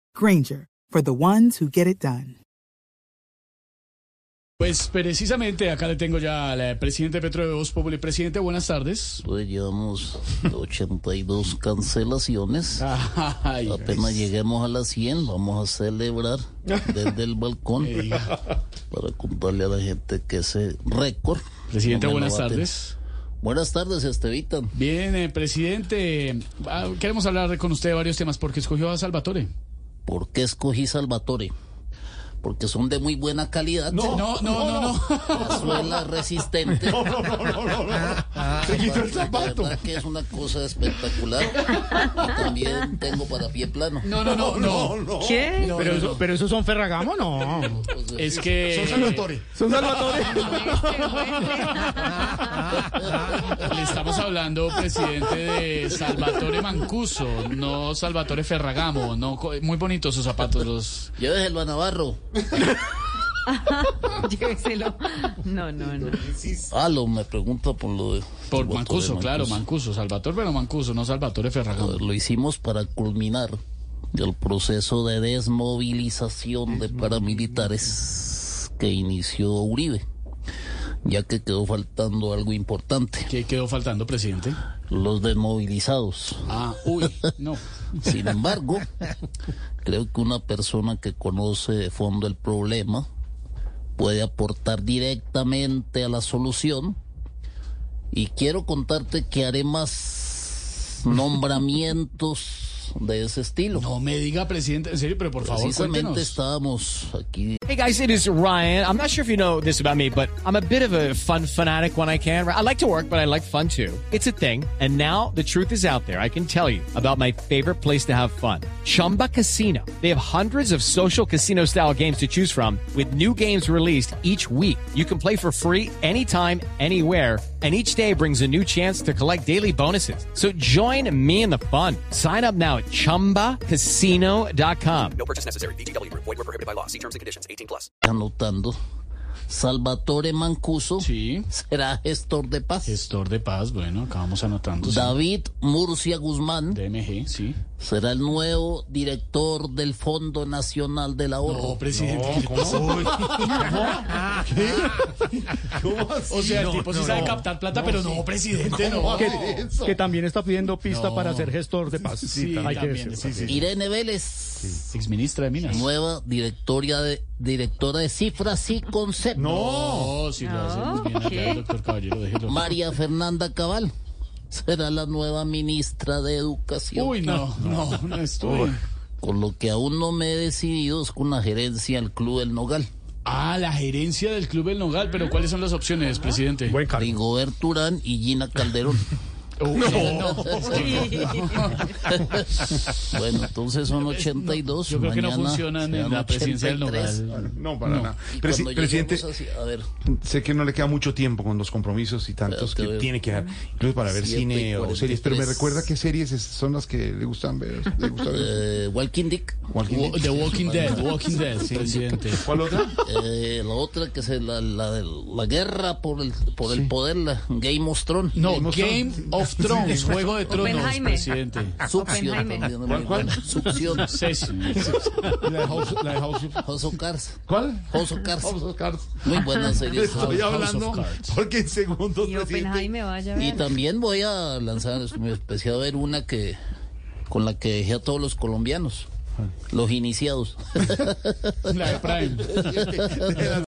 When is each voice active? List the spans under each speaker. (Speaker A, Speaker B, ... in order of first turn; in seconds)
Speaker A: 0.1-2.4
Speaker B: 4.6-9.2, 12.8-14.2, 17.8-18.5, 21.7-22.9, 24.7-29.5, 34.1-36.0, 44.0-46.2, 48.1-49.4, 50.2-51.9, 52.8-61.1, 68.5-72.0, 83.3-84.6, 86.5-88.2, 103.7-106.4, 141.0-141.5, 142.8-145.2, 146.7-147.6, 151.4-153.9, 156.3-159.6, 160.8-161.6, 162.1-163.7, 164.9-165.9, 169.5-172.7, 176.9-178.8, 183.2-186.8, 189.6-192.1, 194.0-198.1, 209.9-212.4, 218.3-221.9, 224.0-225.3, 229.9-231.4, 241.7-242.7
Speaker C: 9.2-12.8, 13.7-18.2, 18.9-22.7, 23.4-24.7, 30.1-31.5, 32.4-34.2, 35.4-37.1, 38.5-44.1, 47.8-48.4, 61.2-62.2, 66.6-69.6, 71.7-73.6, 74.1-80.0, 81.0-83.3, 84.9-87.1, 88.0-89.1, 89.8-93.1, 94.0-97.0, 98.1-103.9, 105.4-107.6, 138.0-138.8, 139.5-143.0, 144.8-146.8, 147.8-151.8, 163.4-164.8, 165.6-169.6, 172.5-173.9, 174.5-177.2, 179.2-182.9, 186.9-189.1, 189.8-191.2, 192.1-197.2, 198.3-199.9, 202.5-203.1, 204.1-205.9, 208.3-209.7, 210.6-211.1, 213.0-218.4, 221.8-224.1, 224.8-225.1, 226.6-228.5, 229.2-230.5, 233.3-236.6, 237.3-239.1, 239.7-241.9, 243.0-243.4
Speaker D: 33.9-35.5, 36.7-39.8, 44.2-46.0, 48.3-50.2, 76.9-77.2, 151.9-160.1, 169.3-170.2, 190.4-190.7, 197.3-199.3, 200.1-208.6, 209.7-213.0, 216.6-216.9, 218.4-220.8, 222.8-224.1, 224.9-226.7, 227.5-232.9, 242.4-243.6
Speaker E: 45.2-45.7, 50.3-52.4, 63.5-66.3, 170.3-171.6, 220.5-223.0, 232.2-233.7
Speaker F: 45.8-47.8, 49.5-51.0, 159.2-163.4, 186.7-187.1
Speaker G: 107.7-108.0, 109.9-110.7, 112.6-113.1, 114.0-114.9, 116.3-134.2
Speaker H: 134.5-137.9